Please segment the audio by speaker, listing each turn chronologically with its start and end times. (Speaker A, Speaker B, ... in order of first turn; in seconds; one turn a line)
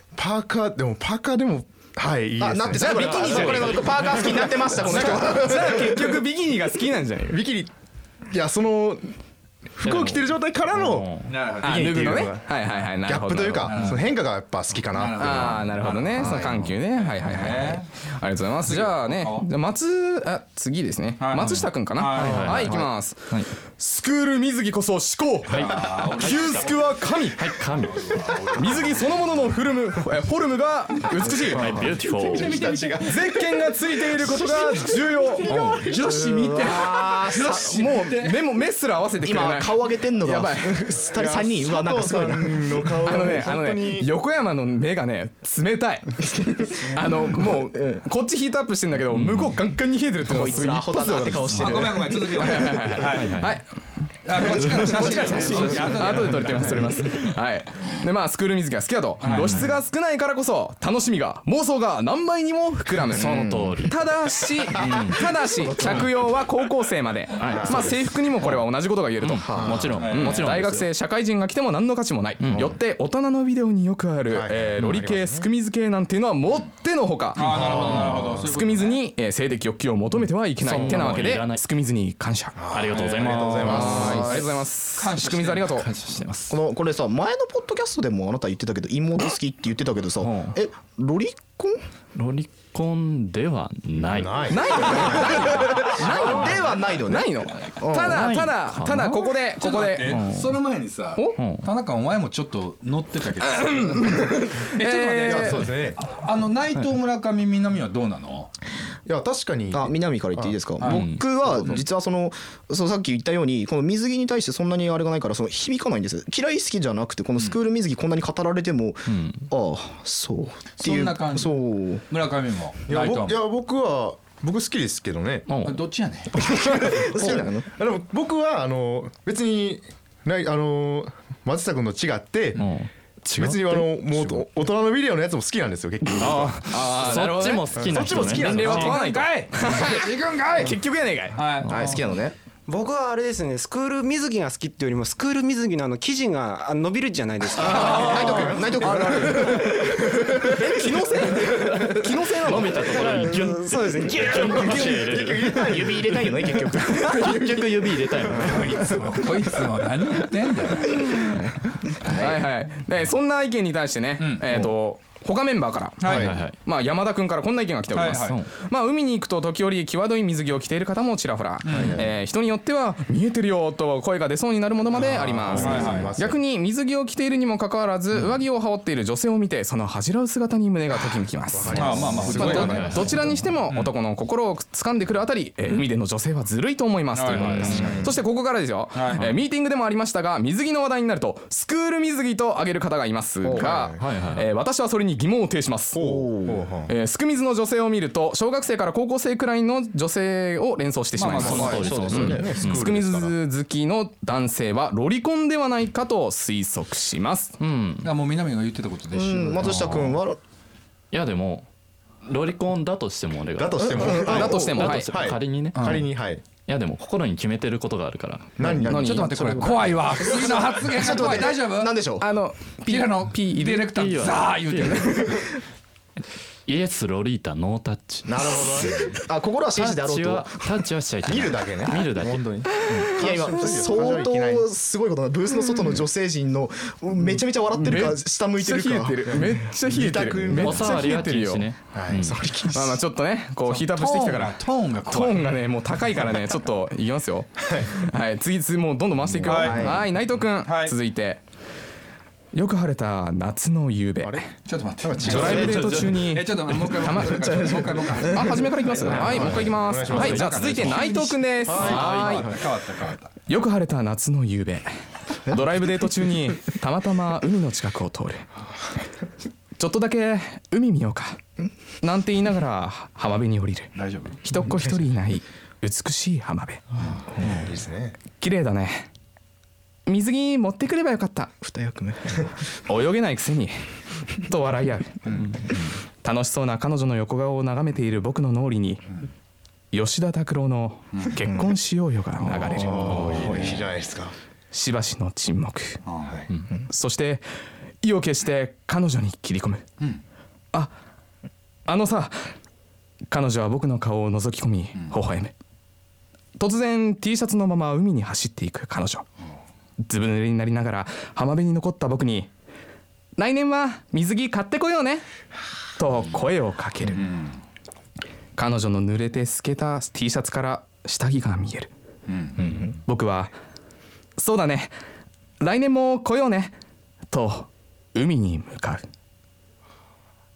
Speaker A: 0.2-3.4
Speaker B: 2.4-5.8
Speaker C: 2.8-3.7
Speaker D: 2.8-4.7
Speaker C: 4.8-7.4
Speaker A: 4.9-6.2
Speaker A: 7.3-7.7
Speaker A: 8.3-9.0
Speaker A: 9.8-16.6
Speaker D: 9.8-11.3
Speaker E: 11.2-11.8
Speaker C: 11.6-13.8
Speaker E: 13.7-14.0
Speaker E: 15.0-16.2
Speaker C: 15.2-23.2
Speaker E: 16.9-17.9
Speaker E: 18.6-19.5
Speaker E: 21.2-22.2
Speaker D: 21.5-23.5
Speaker B: 22.5-22.8
Speaker C: 23.8-27.4
Speaker D: 25.5-26.7
Speaker E: 25.6-26.8
Speaker D: 27.3-29.1
Speaker C: 28.5-31.8
Speaker A: 31.3-33.3
Speaker D: 31.4-32.6
Speaker C: 32.6-35.5
Speaker D: 35.5-35.8
Speaker E: 35.7-38.4
Speaker B: 36.0-37.9
Speaker C: 36.6-40.9
Speaker B: 39.2-43.0
Speaker A: 41.1-44.1
Speaker C: 43.0-53.6
Speaker B: 46.2-46.7
Speaker D: 49.1-49.6
Speaker B: 50.2-52.4
Speaker E: 51.5-53.4
Speaker D: 53.1-53.5
Speaker E: 54.2-57.0
Speaker C: 54.3-77.8
Speaker B: 54.9-55.7
Speaker E: 59.2-59.5
Speaker D: 59.3-59.7
Speaker D: 63.1-64.0
Speaker B: 63.2-63.9
Speaker D: 64.7-65.2
Speaker A: 65.7-66.0
Speaker D: 65.8-66.1
Speaker D: 67.4-70.9
Speaker A: 67.5-67.9
Speaker A: 69.5-70.0
Speaker E: 70.0-70.3
Speaker D: 72.4-72.7
Speaker A: 74.3-75.5
Speaker E: 77.3-79.0
Speaker A: 77.4-78.5
Speaker C: 78.4-82.6
Speaker D: 80.6-81.6
Speaker A: 82.5-84.4
Speaker D: 82.7-84.5
Speaker C: 83.6-85.9
Speaker E: 84.9-85.7
Speaker D: 85.7-86.6
Speaker B: 86.5-91.8
Speaker D: 90.2-90.6
Speaker D: 92.1-96.3
Speaker A: 94.0-96.0
Speaker C: 94.5-100.2
Speaker B: 95.0-98.3
Speaker D: 98.0-99.4
Speaker E: 99.5-108.5
Speaker D: 100.0-100.6
Speaker C: 101.2-101.4
Speaker D: 101.3-101.7
Speaker C: 103.4-105.7
Speaker A: 105.2-106.0
Speaker A: 109.0-110.6
Speaker B: 109.7-122.0
Speaker E: 110.7-111.8
Speaker D: 110.8-111.2
Speaker D: 119.0-119.5
Speaker E: 120.7-123.4
Speaker A: 122.9-125.5
Speaker D: 125.5-125.8
Speaker E: 125.6-126.3
Speaker B: 126.4-127.7
Speaker A: 126.4-136.9
Speaker D: 132.6-134.4
Speaker D: 136.1-139.0
Speaker C: 136.7-141.4
Speaker A: 137.8-138.7
Speaker E: 138.6-140.8
Speaker E: 141.3-142.0
Speaker B: 141.7-142.3
Speaker F: 142.7-149.6
Speaker A: 147.6-150.3
Speaker B: 147.6-150.7
Speaker C: 147.8-149.7
Speaker C: 150.5-152.8
Speaker F: 151.2-151.5
Speaker D: 151.5-159.0
Speaker F: 152.8-154.7
Speaker B: 154.1-159.1
Speaker A: 154.6-155.9
Speaker E: 158.5-161.1
Speaker B: 161.9-162.4
Speaker C: 162.2-196.0
Speaker E: 164.2-164.5
Speaker E: 166.0-166.2
Speaker A: 166.1-166.4
Speaker D: 166.1-166.5
Speaker E: 167.9-168.3
Speaker D: 168.2-168.5
Speaker E: 171.6-172.0
Speaker A: 171.7-172.1
Speaker A: 174.9-176.4
Speaker D: 175.5-176.1
Speaker E: 175.6-176.1
Speaker A: 181.5-183.3
Speaker E: 181.8-182.7
Speaker D: 182.0-183.5
Speaker E: 187.1-187.7
Speaker D: 187.3-188.1
Speaker A: 187.7-188.2
Speaker E: 188.9-189.2
Speaker D: 189.1-189.4
Speaker B: 193.4-193.7
Speaker A: 193.5-194.1
Speaker D: 194.0-194.5
Speaker A: 195.9-196.9
Speaker B: 196.0-196.7
Speaker C: 196.9-202.1
Speaker E: 201.2-201.7
Speaker B: 201.4-202.6
Speaker A: 201.4-203.4
Speaker D: 201.5-202.9
Speaker C: 202.7-207.6
Speaker D: 207.6-208.1
Speaker E: 208.0-209.6
Speaker B: 209.1-210.4
Speaker D: 209.6-210.2
Speaker D: 211.1-211.7
Speaker D: 212.2-219.0
Speaker A: 213.6-216.4
Speaker B: 213.8-214.9
Speaker C: 214.2-215.1
Speaker A: 218.6-219.0
Speaker B: 218.6-222.3
Speaker C: 218.8-219.3
Speaker E: 219.0-222.0
Speaker C: 222.2-223.9
Speaker E: 222.9-225.4
Speaker D: 223.8-225.1
Speaker C: 224.8-225.2
Speaker D: 226.7-233.1
Speaker A: 228.2-229.1
Speaker B: 228.7-230.8
Speaker A: 231.2-234.7
Speaker B: 233.1-239.4
Speaker C: 237.7-241.7
Speaker A: 239.2-241.1
Speaker D: 240.5-242.4
Speaker A: 241.9-242.3
Speaker B: 242.2-243.0
Speaker C: 242.7-251.4
Speaker E: 243.6-245.6
Speaker D: 249.2-249.6
Speaker E: 249.5-249.9
Speaker B: 249.5-250.0
Speaker E: 250.6-250.9
Speaker C: 252.5-254.5
Speaker E: 254.7-259.0
Speaker A: 255.0-256.1
Speaker C: 255.2-262.6
Speaker B: 255.4-255.8
Speaker B: 257.4-259.4
Speaker D: 259.0-261.2
Speaker A: 259.2-260.5
Speaker E: 260.2-263.3
Speaker A: 261.6-262.2
Speaker C: 263.5-264.9
Speaker C: 265.5-268.4
Speaker C: 269.8-271.4
Speaker C: 272.0-273.9
Speaker E: 273.9-274.5
Speaker C: 274.4-277.0
Speaker A: 277.5-278.2
Speaker C: 278.4-279.1
Speaker C: 280.1-281.5
Speaker B: 281.6-282.5
Speaker C: 282.9-283.7
Speaker C: 284.4-285.4
Speaker C: 286.2-289.0
Speaker C: 289.9-293.4
Speaker B: 291.4-291.8
Speaker D: 292.4-293.8
Speaker A: 292.7-294.3
Speaker C: 294.7-296.0
Speaker E: 296.0-296.5
Speaker C: 296.9-297.4
Speaker C: 298.0-299.8
Speaker C: 301.9-302.4
Speaker C: 303.3-305.5
Speaker C: 306.6-309.2
Speaker C: 310.1-312.5
Speaker C: 313.4-315.2
Speaker C: 316.0-317.2
Speaker E: 317.2-317.6
Speaker C: 318.6-321.9
Speaker E: 322.3-322.6
Speaker C: 322.8-323.5
Speaker C: 324.4-324.9
Speaker C: 325.6-326.7
Speaker C: 327.3-329.0